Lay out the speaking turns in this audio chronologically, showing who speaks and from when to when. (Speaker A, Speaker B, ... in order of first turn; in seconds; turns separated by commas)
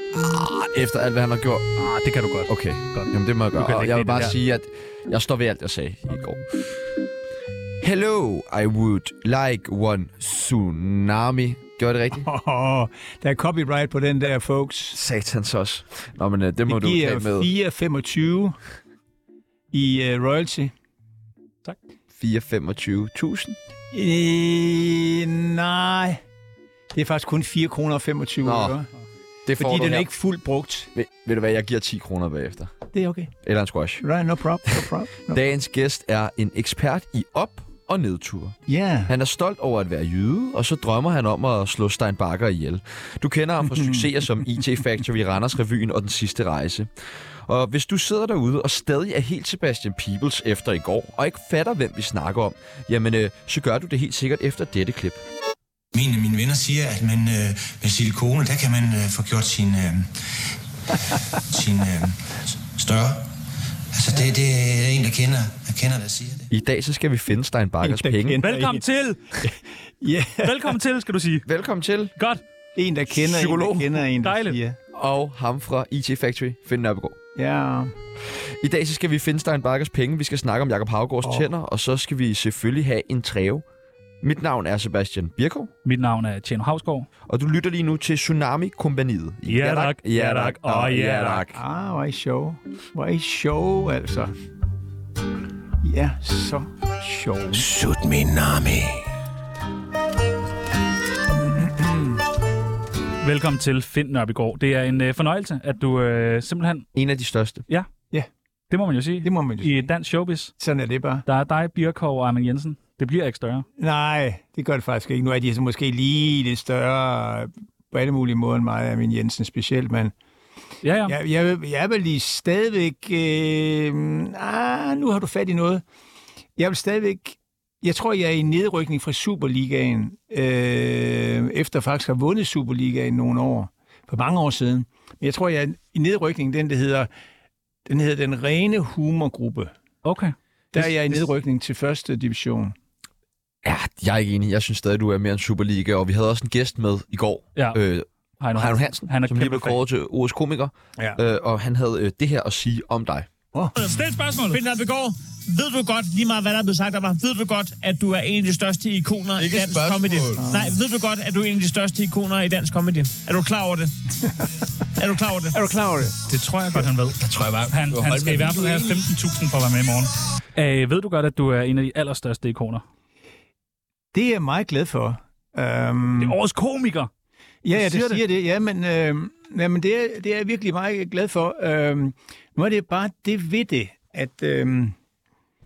Speaker A: 0.1-1.7, Speaker B: 1.8-4.3, Speaker A: 2.5-6.6, Speaker A: 7.8-12.3, Speaker C: 12.1-15.0, Speaker A: 14.9-17.5, Speaker C: 16.7-18.6, Speaker C: 19.7-20.7, Speaker A: 22.1-23.6, Speaker C: 23.9-26.2, Speaker C: 26.9-28.9, Speaker A: 28.4-28.8, Speaker A: 29.4-30.1, Speaker C: 29.6-30.9, Speaker A: 30.9-32.7, Speaker C: 32.9-33.3, Speaker A: 33.4-34.0, Speaker C: 34.0-35.4, Speaker A: 34.7-38.5, Speaker C: 38.7-39.1, Speaker A: 39.1-46.9, Speaker C: 43.7-44.0, Speaker A: 47.5-55.2, Speaker D: 55.9-60.1, Speaker D: 60.9-63.3, Speaker D: 63.9-66.5, Speaker A: 66.5-68.4, Speaker C: 67.8-68.8, Speaker B: 68.4-69.4, Speaker C: 69.4-70.8, Speaker B: 70.4-71.5, Speaker A: 71.5-72.1, Speaker B: 72.2-72.4, Speaker C: 72.8-74.8, Speaker A: 73.1-74.0, Speaker B: 74.2-74.6, Speaker A: 74.9-77.2, Speaker C: 77.3-77.9, Speaker A: 78.6-83.6, Speaker C: 81.2-81.5, Speaker A: 84.2-85.7, Speaker B: 85.8-87.1, Speaker A: 87.3-91.6, Speaker B: 89.5-91.4, Speaker C: 91.5-94.3, Speaker C: 95.8-97.7, Speaker E: 98.0-99.0, Speaker C: 101.3-102.2, Speaker B: 103.2-106.9, Speaker A: 106.9-107.6, Speaker B: 108.7-110.5, Speaker C: 109.2-109.9, Speaker C: 110.6-111.2, Speaker B: 111.2-113.7, Speaker C: 113.8-120.1, Speaker B: 120.8-121.2, Speaker C: 121.0-125.8, Speaker C: 126.6-137.1, Speaker C: 137.8-139.7, Speaker B: 140.0-140.9, Speaker C: 140.7-142.7, Speaker A: 143.6-153.3, Speaker B: 148.4-149.8, Speaker B: 153.8-154.6, Speaker E: 154.5-164.0, Speaker A: 159.3-160.5, Speaker C: 160.3-160.8, Speaker E: 165.0-165.6, Speaker C: 165.4-166.8, Speaker B: 166.3-172.8, Speaker A: 167.9-168.5, Speaker C: 174.1-176.3, Speaker B: 176.2-177.1, Speaker C: 177.6-184.9, Speaker B: 177.7-178.2